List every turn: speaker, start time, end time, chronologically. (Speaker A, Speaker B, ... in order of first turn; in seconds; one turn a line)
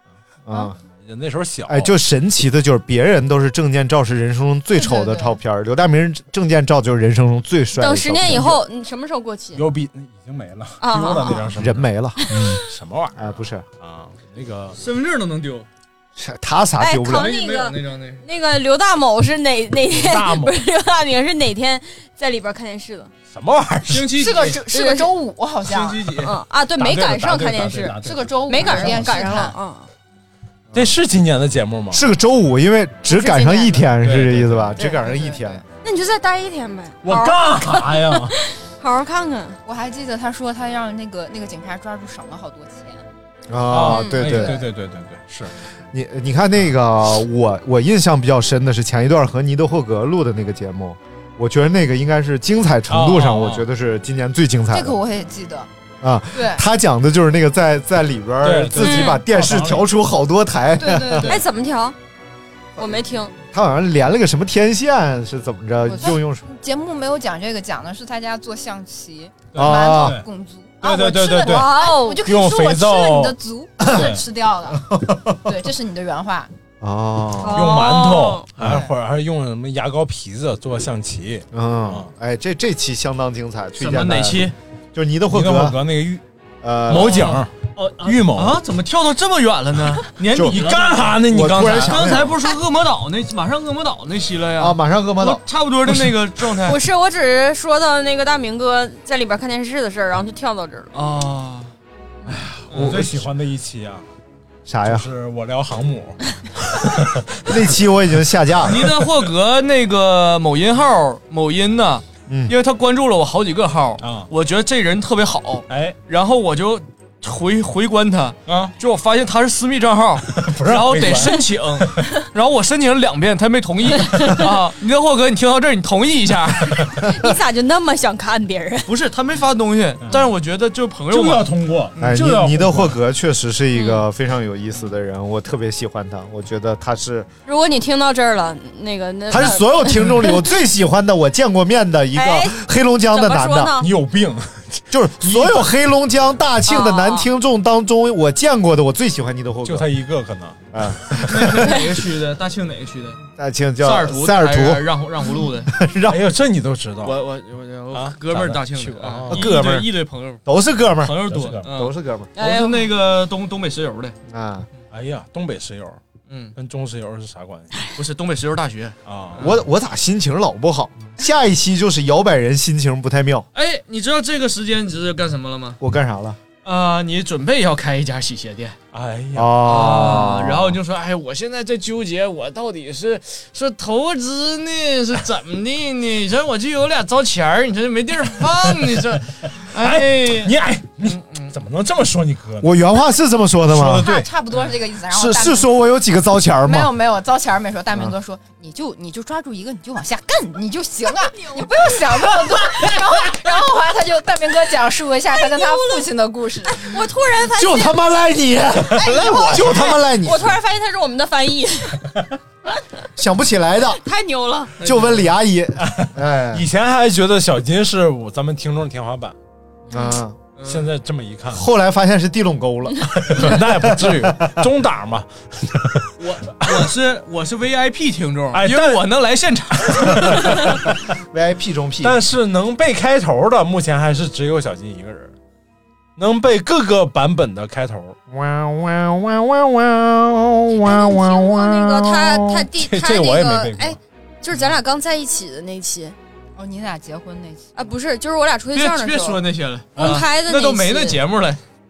Speaker A: 0.5-0.8
Speaker B: 0.8-1.9
Speaker A: 1.7-8.6
Speaker C: 4.8-5.4
Speaker D: 7.8-9.7
Speaker B: 9.6-14.8
Speaker D: 10.8-11.5
Speaker A: 11.6-12.6
Speaker D: 12.3-12.5
Speaker A: 13.2-13.7
Speaker E: 14.8-15.7
Speaker A: 16.2-17.4
Speaker D: 16.8-23.1
Speaker E: 17.1-18.2
Speaker B: 19.9-20.6
Speaker B: 23.3-24.2
Speaker E: 23.9-24.6
Speaker C: 24.2-26.1
Speaker D: 24.5-25.1
Speaker E: 25.6-26.4
Speaker D: 26.2-29.9
Speaker B: 26.8-29.1
Speaker C: 28.0-29.6
Speaker B: 30.7-32.0
Speaker A: 31.9-35.6
Speaker D: 33.2-33.8
Speaker B: 34.0-34.8
Speaker C: 34.8-35.6
Speaker D: 35.8-39.6
Speaker B: 37.0-38.4
Speaker C: 39.6-43.1
Speaker A: 43.5-44.6
Speaker B: 43.7-45.5
Speaker C: 44.2-44.6
Speaker A: 45.9-55.0
Speaker B: 52.9-53.6
Speaker C: 54.7-55.7
Speaker A: 56.0-61.4
Speaker C: 56.3-56.6
Speaker B: 58.4-59.9
Speaker D: 58.8-59.2
Speaker C: 60.8-61.4
Speaker D: 61.2-62.0
Speaker D: 62.8-63.3
Speaker A: 63.5-66.4
Speaker C: 65.9-74.8
Speaker B: 69.5-70.2
Speaker A: 69.5-70.2
Speaker B: 70.8-74.2
Speaker D: 71.4-72.2
Speaker A: 74.8-75.4
Speaker C: 75.5-76.5
Speaker A: 76.8-77.8
Speaker D: 77.4-78.5
Speaker B: 77.5-82.1
Speaker A: 78.6-78.8
Speaker A: 81.5-85.8
Speaker E: 83.8-84.5
Speaker B: 85.3-86.2
Speaker A: 86.6-87.4
Speaker B: 86.9-87.5
Speaker E: 86.9-91.2
Speaker B: 88.0-88.6
Speaker B: 90.4-92.2
Speaker A: 91.2-92.3
Speaker E: 91.8-96.8
Speaker A: 94.6-95.4
Speaker D: 96.6-100.9
Speaker E: 100.9-101.7
Speaker B: 102.3-104.1
Speaker E: 102.7-103.0
Speaker A: 102.8-103.3
Speaker A: 104.7-105.1
Speaker B: 104.8-107.6
Speaker A: 107.5-108.8
Speaker E: 108.7-126.8
Speaker A: 112.3-112.5
Speaker B: 114.0-114.3
Speaker B: 115.7-116.0
Speaker B: 118.5-118.7
Speaker B: 120.3-122.1
Speaker D: 124.0-124.5
Speaker D: 127.0-128.9
Speaker E: 128.9-131.5
Speaker B: 131.1-133.0
Speaker A: 132.0-137.3
Speaker D: 133.7-134.1
Speaker D: 137.5-140.5
Speaker A: 139.3-143.8
Speaker D: 142.1-143.9
Speaker B: 143.8-145.7
Speaker A: 144.9-149.9
Speaker D: 146.7-147.3
Speaker B: 149.7-150.6
Speaker A: 150.7-151.8
Speaker E: 151.3-153.2
Speaker A: 153.4-154.8
Speaker E: 153.8-155.7
Speaker A: 155.7-156.2
Speaker B: 156.1-157.2
Speaker E: 157.0-160.4
Speaker B: 157.9-159.7
Speaker A: 159.3-159.9
Speaker A: 160.5-162.3
Speaker E: 161.0-164.2
Speaker B: 161.3-161.7
Speaker D: 162.4-162.9
Speaker A: 164.3-164.7
Speaker B: 164.9-166.0
Speaker E: 166.3-166.5
Speaker B: 166.6-167.7
Speaker E: 168.0-169.6
Speaker B: 169.1-169.5
Speaker A: 169.4-173.5
Speaker E: 173.5-175.8
Speaker A: 175.8-176.4
Speaker E: 176.6-178.8
Speaker B: 178.9-180.2
Speaker A: 179.3-180.8
Speaker E: 179.6-191.5
Speaker B: 189.8-192.7
Speaker A: 192.6-194.1
Speaker B: 193.7-194.3
Speaker C: 194.0-195.8
Speaker A: 195.1-196.9
Speaker C: 196.7-206.8
Speaker D: 201.2-202.1
Speaker D: 205.3-206.1
Speaker D: 206.7-208.1
Speaker A: 207.5-210.6
Speaker D: 208.9-212.1
Speaker A: 213.2-214.0
Speaker D: 213.9-214.8
Speaker E: 214.8-215.3
Speaker A: 214.8-216.6
Speaker B: 215.8-219.3
Speaker A: 219.9-220.4
Speaker D: 219.9-220.2
Speaker E: 220.6-220.9
Speaker B: 220.6-221.7
Speaker A: 221.5-224.5
Speaker B: 223.2-226.1
Speaker E: 226.2-230.7
Speaker B: 228.5-229.0
Speaker B: 229.8-230.8
Speaker A: 231.3-232.2
Speaker B: 232.0-235.3
Speaker B: 236.2-238.2
Speaker A: 238.3-242.0
Speaker D: 240.8-246.2
Speaker B: 242.4-244.0
Speaker C: 246.6-247.7
Speaker D: 247.8-249.4
Speaker E: 248.7-251.6
Speaker B: 250.0-250.2
Speaker D: 250.0-251.2